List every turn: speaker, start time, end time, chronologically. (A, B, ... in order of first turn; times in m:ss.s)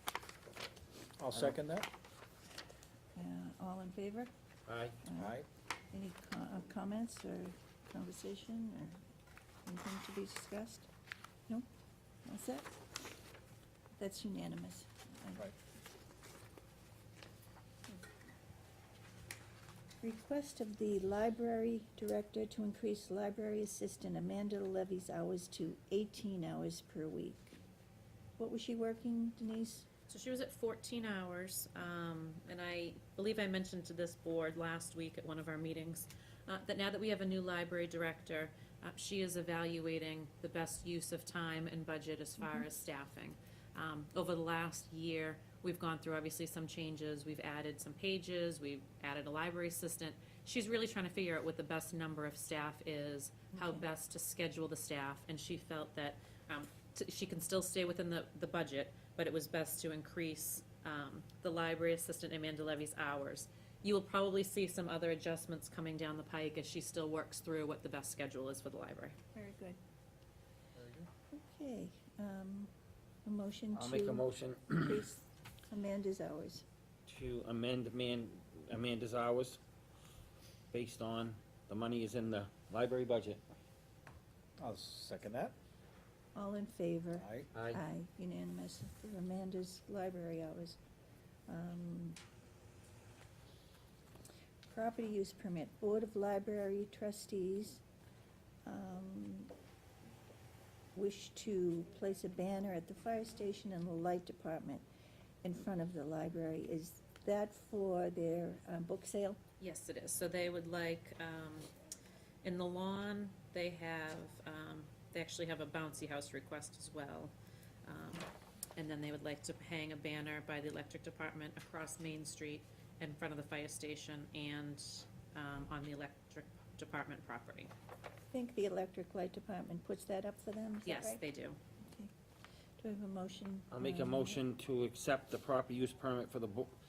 0:01.2-0:01.9 A
0:03.2-0:04.3 B
0:04.7-0:05.0 C
0:05.0-0:05.4 B
0:05.2-0:05.4 A
0:05.9-0:09.0 B
0:09.6-0:10.9 B
0:12.2-0:12.7 B
0:14.0-0:15.5 B
0:20.0-0:27.6 B
0:28.4-0:29.9 B
0:30.1-1:09.2 D
0:42.4-0:42.6 B
0:53.6-0:53.8 B
1:09.3-1:09.8 B
1:10.8-1:11.1 A
1:11.3-1:12.7 B
1:13.2-1:14.2 B
1:13.7-1:15.1 C
1:14.8-1:16.6 B
1:17.1-1:19.6 C
1:20.7-1:23.4 C
1:24.6-1:25.5 A
1:26.3-1:30.8 B
1:27.2-1:27.5 A
1:27.5-1:27.8 C
1:31.5-1:32.2 B
1:34.7-1:37.8 B
1:38.6-1:39.5 B
1:41.0-1:44.8 B
1:45.4-1:49.4 B
1:49.6-1:51.7 D
1:52.4-1:57.3 D
1:57.8-2:07.7 D
2:08.3-2:11.2 B
2:10.8-2:11.6 D
2:11.8-2:12.1 B
2:12.8-2:14.4 B
2:13.7-2:16.7 C